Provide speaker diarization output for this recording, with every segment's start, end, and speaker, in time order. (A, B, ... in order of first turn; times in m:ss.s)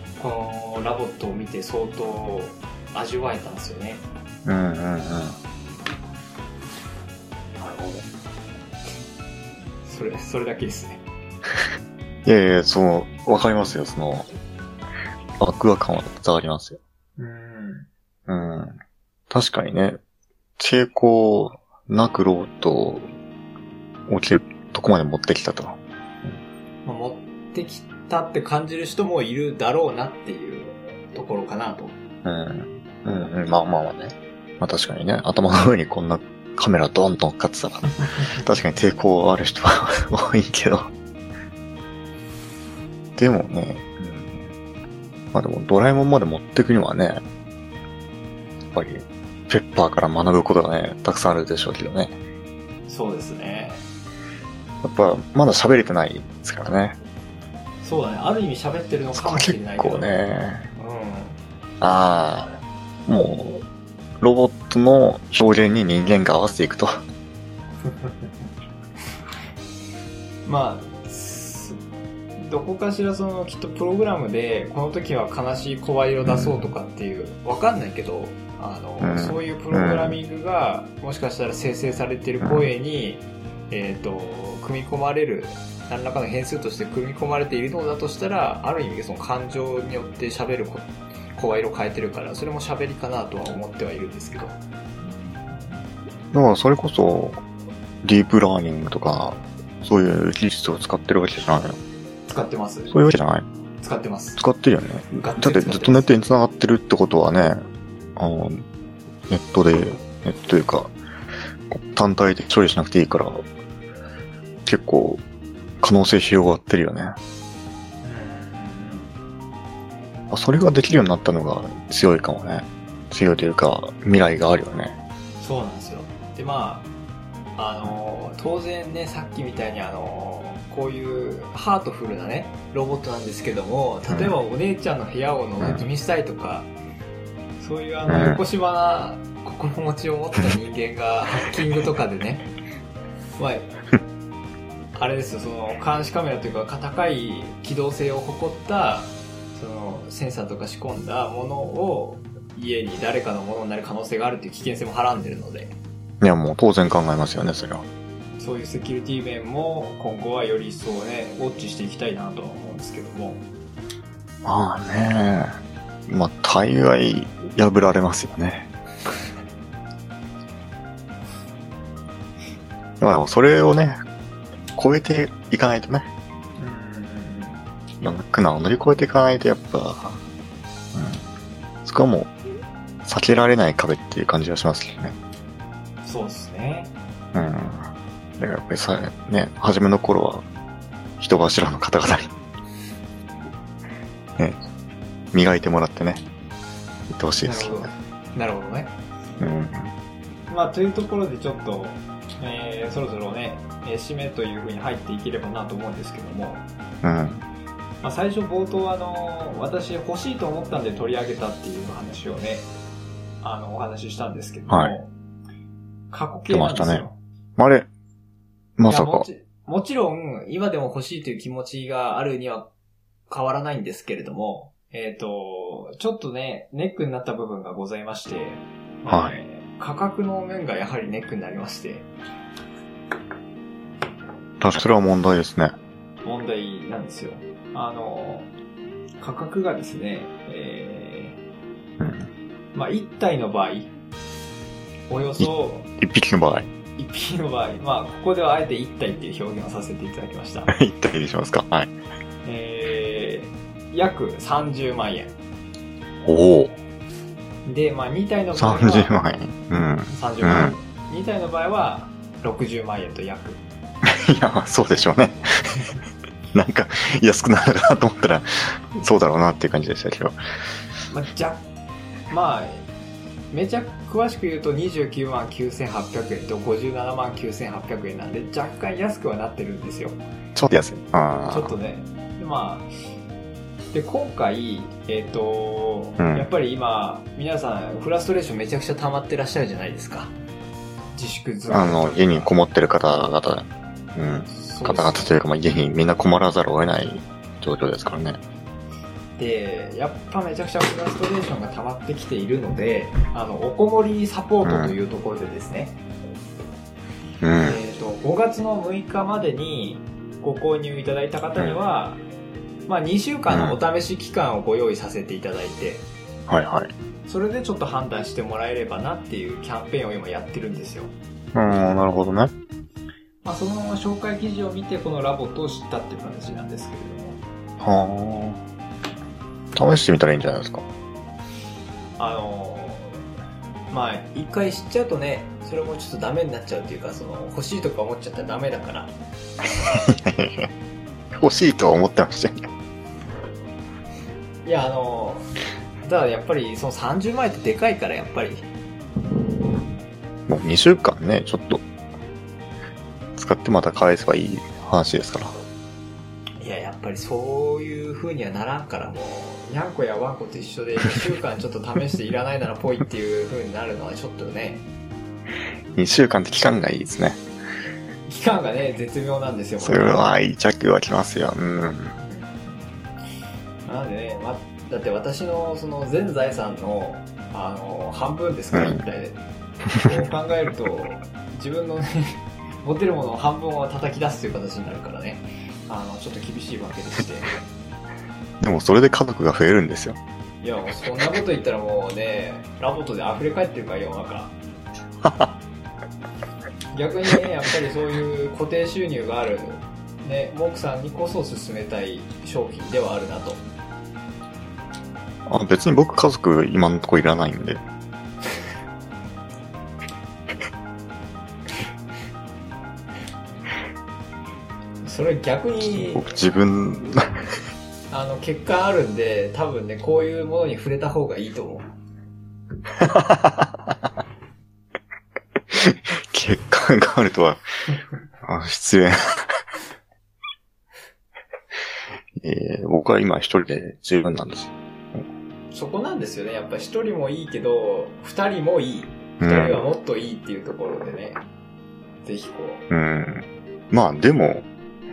0:00.2-0:04.0 A
0:04.4-0:05.4 B
0:07.6-0:08.0 A
0:09.8-0:11.0 A
0:12.2-0:14.3 B
0:15.4-0:16.8 B
0:17.2-0:17.9 A
0:18.3-0:18.8 B
0:19.3-0:20.0 B
0:20.6-0:23.1 B
0:24.1-0:26.4 B
0:26.8-0:32.0 A
0:32.2-0:40.9 B
0:43.2-0:44.5 B
0:45.3-0:47.2 B
0:48.7-0:52.2 B
0:52.9-0:53.8 A
0:54.8-0:57.0 B
0:57.8-1:00.1 A
0:59.1-1:00.7 B
1:00.8-1:01.4 A
1:01.8-1:02.5 B
1:03.1-1:03.6 B
1:04.2-1:07.0 B
1:07.8-1:08.1 A
1:10.4-1:11.8 A
1:12.4-1:34.6 A
1:16.2-1:16.7 B
1:19.0-1:20.2 B
1:22.4-1:22.7 B
1:36.3-1:37.4 B
1:38.0-1:41.8 B
1:42.3-1:42.9 A
1:42.9-1:43.5 B
1:43.8-1:44.4 A
1:44.4-1:47.6 B
1:45.2-1:46.1 A
1:48.2-1:48.6 B
1:49.3-1:50.9 B
1:51.7-1:53.4 B
1:54.6-1:55.2 B
1:55.8-1:57.2 B
1:58.0-1:59.1 A
2:00.3-2:05.0 B
2:05.4-2:06.9 A
2:07.6-2:16.7 A
2:14.1-2:14.3 B
2:15.6-2:15.8 B
2:17.6-2:22.4 A
2:18.1-2:18.4 B
2:23.4-2:23.7 A
2:24.9-2:35.8 A
2:36.2-2:37.8 B
2:38.4-2:43.4 A
2:44.4-2:45.5 B
2:46.1-2:48.7 B
2:53.0-2:54.0 B
2:54.7-2:56.1 B
2:56.6-2:57.6 A
2:58.0-3:00.2 B
3:00.9-3:01.2 B
3:01.8-3:02.3 B
3:03.0-3:05.2 B
3:06.0-3:06.9 A
3:07.3-3:07.9 B
3:08.4-3:10.4 B
3:11.2-3:12.3 B
3:15.3-3:16.2 B
3:17.1-3:17.9 B
3:17.4-3:18.9 A
3:19.4-3:19.9 B
3:20.5-3:26.6 A
3:27.0-3:27.4 B
3:28.0-3:32.7 A
3:33.4-3:35.1 A
3:34.7-3:34.9 B
3:36.1-3:37.2 A
3:36.5-3:37.0 B
3:37.6-3:37.9 B
3:38.8-3:39.3 B
3:38.9-3:42.7 A
3:43.3-3:52.1 A
3:49.1-3:49.4 B
3:54.6-3:55.7 B
3:56.2-3:58.5 A
3:59.2-4:01.4 A
4:02.0-4:02.3 B
4:02.7-4:03.9 A
4:05.1-4:05.9 A
4:06.0-4:06.7 B
4:07.0-4:10.7 A
4:10.7-4:11.9 B
4:12.4-4:15.3 A
4:16.2-4:16.7 B
4:17.6-4:19.1 A
4:18.5-4:20.8 B
4:20.1-4:23.6 A
4:24.0-4:25.4 B
4:26.5-4:30.4 B
4:31.1-4:31.6 A
4:32.3-4:32.9 A
4:33.5-4:40.2 A
4:40.5-4:41.7 B
4:41.5-4:42.9 A
4:43.9-4:50.3 A
4:46.2-4:46.5 B
4:51.1-4:52.5 A
4:51.7-4:58.4 B
4:54.5-4:55.3 A
4:59.4-5:06.0 A
5:04.6-5:05.0 B
5:07.4-5:07.8 B
5:07.6-5:12.2 A
5:12.9-5:16.1 A
5:13.5-5:13.8 B
5:16.5-5:16.9 B
5:17.2-5:21.1 A
5:21.5-5:22.5 B
5:23.4-5:27.4 A
5:27.8-5:28.6 B
5:29.7-5:30.8 B
5:32.2-5:33.2 A
5:33.9-5:39.2 A
5:39.8-5:40.7 B
5:41.3-5:42.6 B
5:44.6-5:45.4 A
5:46.0-5:48.7 A
5:50.5-5:51.8 B
5:53.4-5:55.6 B
5:56.6-6:04.8 A
6:06.0-6:07.4 B
6:08.3-6:10.2 A
6:09.8-6:12.2 B
6:12.2-6:12.9 A
6:13.8-6:19.4 A
6:18.7-6:19.0 B
6:20.0-6:27.6 A
6:28.6-6:30.2 B
6:30.6-6:34.6 A
6:35.2-6:35.5 B
6:36.9-6:43.6 A
6:45.5-6:47.8 B
6:55.0-6:56.2 A
6:55.8-6:57.3 B
6:58.1-7:01.9 A
7:03.0-7:04.0 B
7:05.7-7:07.6 B
7:08.4-7:09.6 B
7:12.4-7:15.2 B
7:15.7-7:21.4 A
7:19.4-7:19.8 B
7:22.2-7:22.8 A
7:22.9-7:24.7 B